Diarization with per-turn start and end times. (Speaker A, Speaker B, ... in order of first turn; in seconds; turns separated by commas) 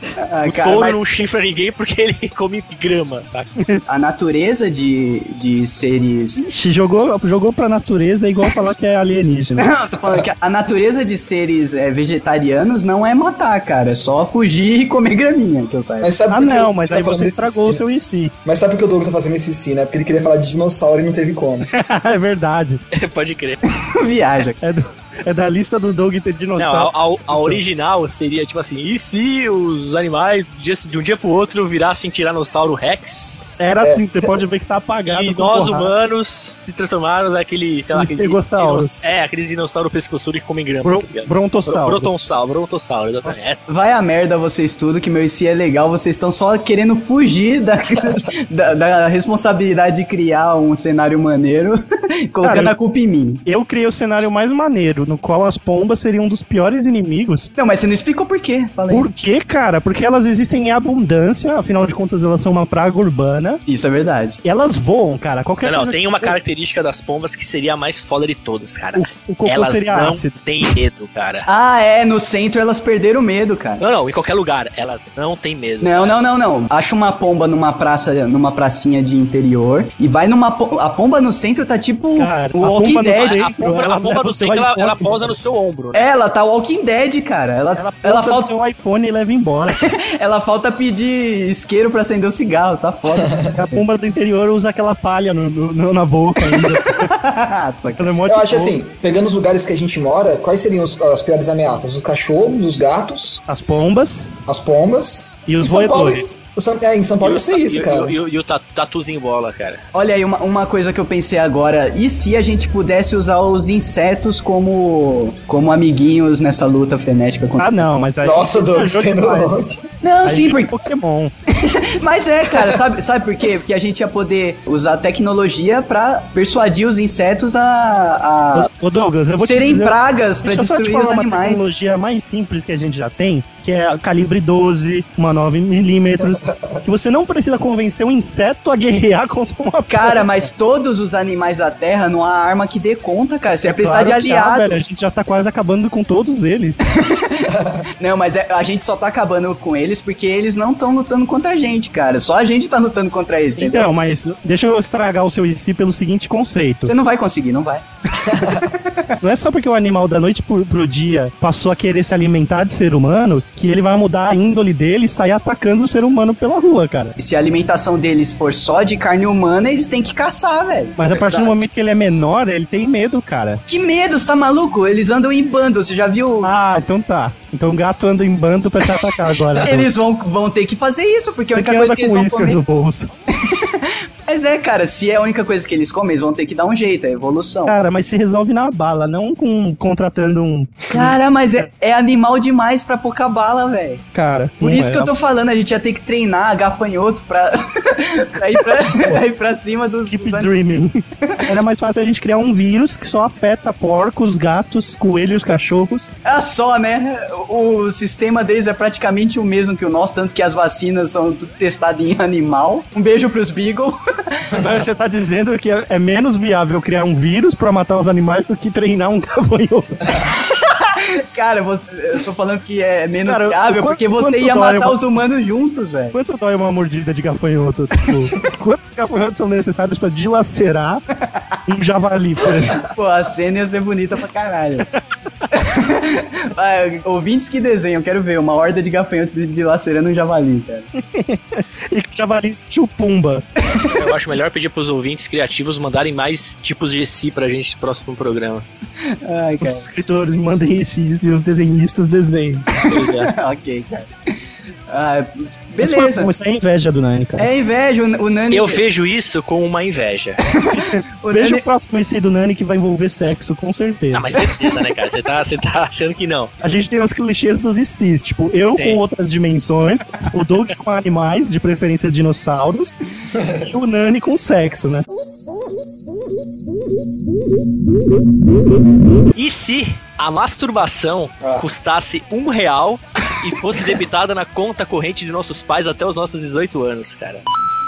Speaker A: 0.2-1.0, Speaker B: 0.4-3.5, Speaker A: 3.9-6.5, Speaker C: 6.3-9.7, Speaker A: 9.6-16.1, Speaker D: 16.0-17.8, Speaker C: 16.3-18.3, Speaker D: 18.4-21.7, Speaker C: 21.7-22.8, Speaker B: 22.9-23.6, Speaker A: 23.8-24.6, Speaker C: 24.6-27.6, Speaker B: 26.6-33.6, Speaker C: 33.6-35.9, Speaker B: 35.1-43.7, Speaker C: 37.9-39.0, Speaker C: 40.8-42.2, Speaker A: 43.7-53.4, Speaker C: 52.4-52.7, Speaker C: 53.5-57.5, Speaker A: 57.6-59.1, Speaker C: 58.9-63.6, Speaker A: 63.7-64.4, Speaker C: 64.4-66.3, Speaker B: 65.6-71.5, Speaker C: 68.9-70.3, Speaker A: 71.5-73.8, Speaker B: 73.8-76.2, Speaker A: 75.8-83.3, Speaker C: 82.2-85.3, Speaker B: 83.2-86.0, Speaker A: 85.9-88.5, Speaker C: 87.7-89.9, Speaker A: 89.7-93.8, Speaker C: 93.6-97.1, Speaker A: 96.4-98.2, Speaker C: 98.0-98.8, Speaker D: 98.2-103.4, Speaker C: 103.5-104.3, Speaker D: 104.5-108.1, Speaker C: 105.5-106.3, Speaker B: 107.2-109.8, Speaker A: 109.9-117.8, Speaker C: 117.6-119.6, Speaker D: 118.2-119.9, Speaker A: 120.0-120.8, Speaker C: 120.2-121.3, Speaker A: 121.5-128.7, Speaker C: 128.5-140.3, Speaker A: 129.4-131.7, Speaker D: 136.4-136.8, Speaker A: 139.9-144.8, Speaker C: 143.6-146.9, Speaker A: 146.9-153.9, Speaker C: 153.6-156.9, Speaker A: 156.8-159.1, Speaker C: 159.2-167.2, Speaker A: 167.2-171.5, Speaker C: 171.0-173.6, Speaker A: 173.7-176.5, Speaker C: 176.4-179.9, Speaker A: 179.5-182.6, Speaker C: 181.4-183.1, Speaker A: 183.3-187.7, Speaker C: 187.7-191.1, Speaker A: 190.9-194.0, Speaker C: 194.1-195.1, Speaker A: 194.6-200.5, Speaker C: 200.1-206.1, Speaker A: 201.2-201.5, Speaker A: 206.2-214.6, Speaker C: 214.6-220.0, Speaker A: 220.1-226.1, Speaker C: 223.2-225.3, Speaker C: 226.1-231.0, Speaker C: 231.7-232.8, Speaker A: 232.9-234.9, Speaker A: 235.5-240.9, Speaker C: 240.9-243.4, Speaker A: 243.6-243.9, Speaker B: 243.9-248.6, Speaker A: 249.0-249.8, Speaker C: 249.6-252.7, Speaker A: 252.8-254.1, Speaker B: 252.8-253.3, Speaker A: 254.9-256.3, Speaker C: 255.8-257.5, Speaker A: 257.4-258.8, Speaker B: 258.5-260.5, Speaker A: 260.5-261.6, Speaker C: 260.8-264.5, Speaker B: 264.1-266.5, Speaker C: 266.6-273.0, Speaker B: 268.8-269.0, Speaker C: 273.6-275.1, Speaker B: 279.3-287.4